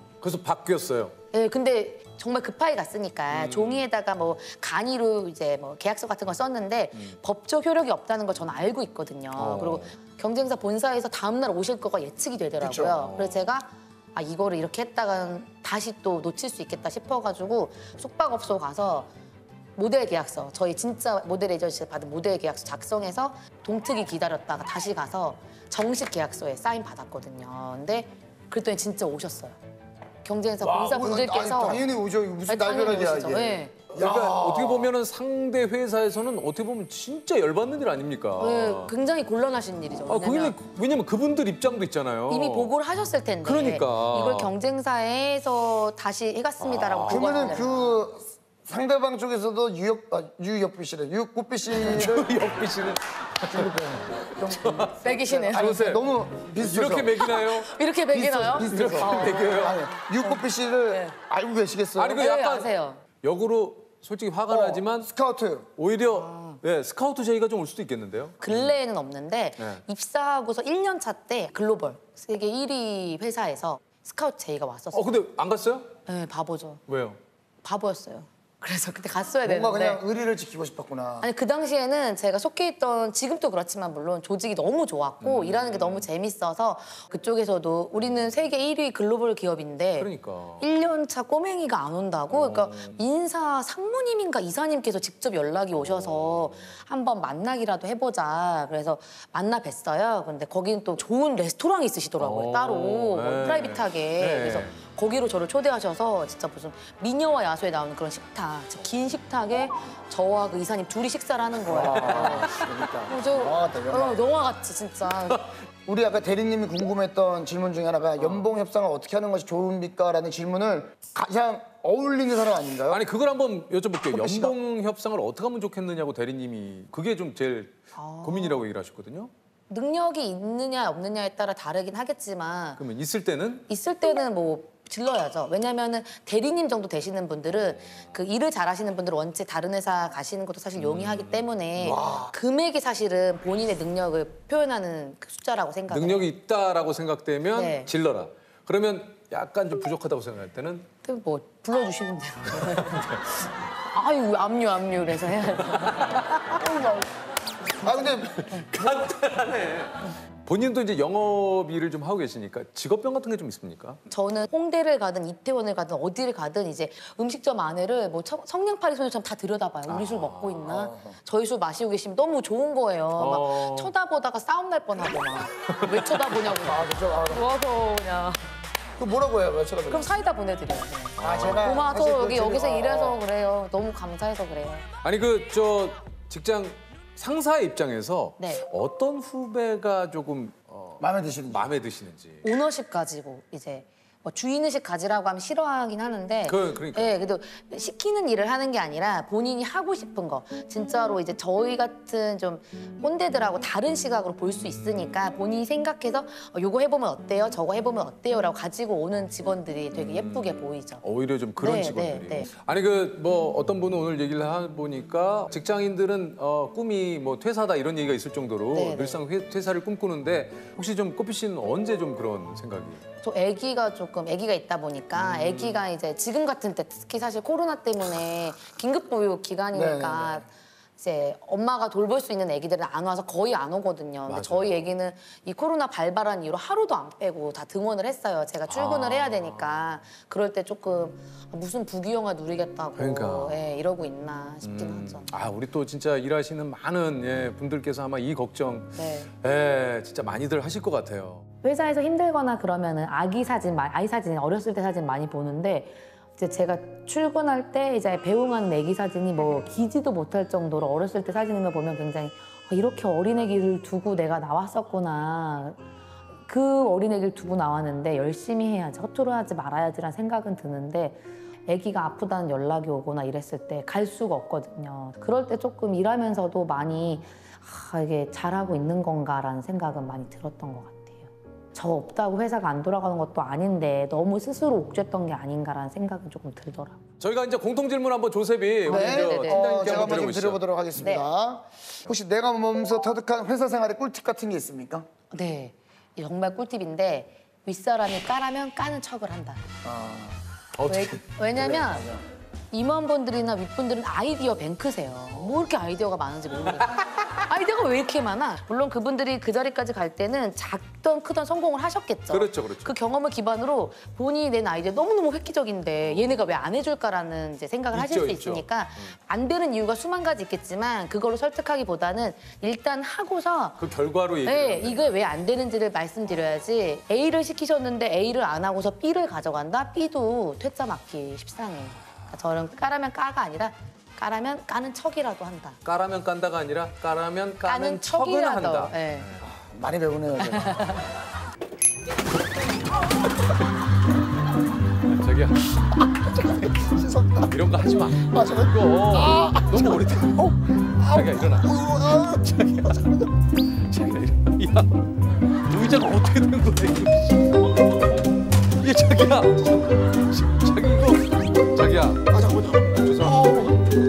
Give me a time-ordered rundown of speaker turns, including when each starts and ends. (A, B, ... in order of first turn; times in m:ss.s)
0:00.2-0:01.1 A
0:01.3-0:19.1 B
0:03.3-0:03.8 A
0:09.4-0:09.9 A
0:12.6-0:13.0 C
0:12.9-0:13.5 A
0:19.8-0:29.6 B
0:30.2-0:31.8 B
0:30.6-0:34.9 C
0:32.5-0:33.8 B
0:33.9-0:38.9 A
0:38.4-0:40.6 B
0:40.0-0:42.7 A
0:42.3-0:48.0 B
0:43.4-0:44.5 A
0:46.6-0:47.6 A
0:47.1-0:52.3 C
0:51.7-0:53.8 A
0:53.5-0:57.2 C
0:54.4-0:57.8 A
0:55.0-0:55.9 B
0:57.2-1:01.2 B
0:58.1-1:02.2 C
0:58.6-0:59.8 A
1:02.0-1:02.7 A
1:02.1-1:03.0 B
1:03.2-1:05.1 A
1:04.5-1:05.7 C
1:05.8-1:08.7 A
1:06.0-1:06.6 B
1:08.4-1:15.2 B
1:14.9-1:15.9 A
1:16.0-1:16.8 B
1:16.9-1:17.2 A
1:17.6-1:20.0 B
1:19.4-1:21.3 C
1:21.2-1:30.1 B
1:25.2-1:26.1 A
1:30.0-1:30.7 A
1:30.6-1:52.5 B
1:32.3-1:33.0 A
1:42.2-1:44.8 A
1:51.6-1:54.2 C
1:52.1-1:52.6 A
1:53.1-1:55.5 B
1:55.8-2:03.0 C
2:02.9-2:09.3 A
2:04.1-2:04.5 C
2:07.9-2:08.6 B
2:09.7-2:12.8 B
2:12.8-2:13.6 A
2:13.7-2:26.3 B
2:20.8-2:22.0 A
2:21.8-2:22.3 C
2:25.9-2:30.9 A
2:27.5-2:27.9 B
2:31.0-2:33.1 B
2:32.7-2:33.2 A
2:33.9-2:36.4 B
2:36.5-2:37.1 C
2:37.8-2:38.6 C
2:38.4-2:44.0 A
2:44.1-2:58.5 B
2:49.9-2:50.8 A
2:50.7-2:51.2 C
2:53.2-2:53.9 A
2:55.8-2:56.0 A
2:56.5-2:57.5 C
2:59.0-3:00.1 C
2:59.9-3:04.9 B
3:01.2-3:01.9 A
3:01.2-3:03.2 C
3:05.0-3:12.5 A
3:08.4-3:08.6 B
3:11.0-3:11.7 C
3:12.4-3:31.0 B
3:16.4-3:17.1 A
3:24.8-3:25.1 A
3:29.9-3:43.0 A
3:31.6-3:32.5 B
3:38.7-3:39.2 B
3:43.2-3:50.5 B
3:45.2-3:45.8 A
3:49.7-3:50.4 C
3:51.0-4:05.3 B
3:54.3-3:54.8 A
3:58.7-3:59.7 A
4:03.0-4:03.6 A
4:04.6-4:11.4 A
4:09.0-4:09.3 B
4:11.6-4:25.8 B
4:26.4-4:47.0 B
4:47.2-4:50.6 A
4:48.8-4:50.3 B
4:48.9-4:55.0 C
4:51.0-4:51.3 B
4:55.3-4:59.6 B
4:59.8-5:00.4 C
5:00.8-5:01.2 A
5:00.8-5:02.1 B
5:01.6-5:02.2 C
5:02.7-5:23.8 B
5:12.3-5:12.9 A
5:16.0-5:16.5 A
5:17.9-5:19.1 A
5:23.8-5:25.2 A
5:24.4-5:35.8 B
5:35.8-5:39.4 A
5:37.6-5:39.3 B
5:39.4-5:40.9 C
5:40.5-5:41.0 B
5:45.1-5:53.2 A
5:46.9-5:47.5 C
5:48.3-5:50.0 C
5:51.0-5:52.4 C
5:53.9-5:54.9 A
5:55.7-5:57.6 A
5:58.8-6:02.3 A
6:02.3-6:03.8 C
6:02.9-6:03.5 A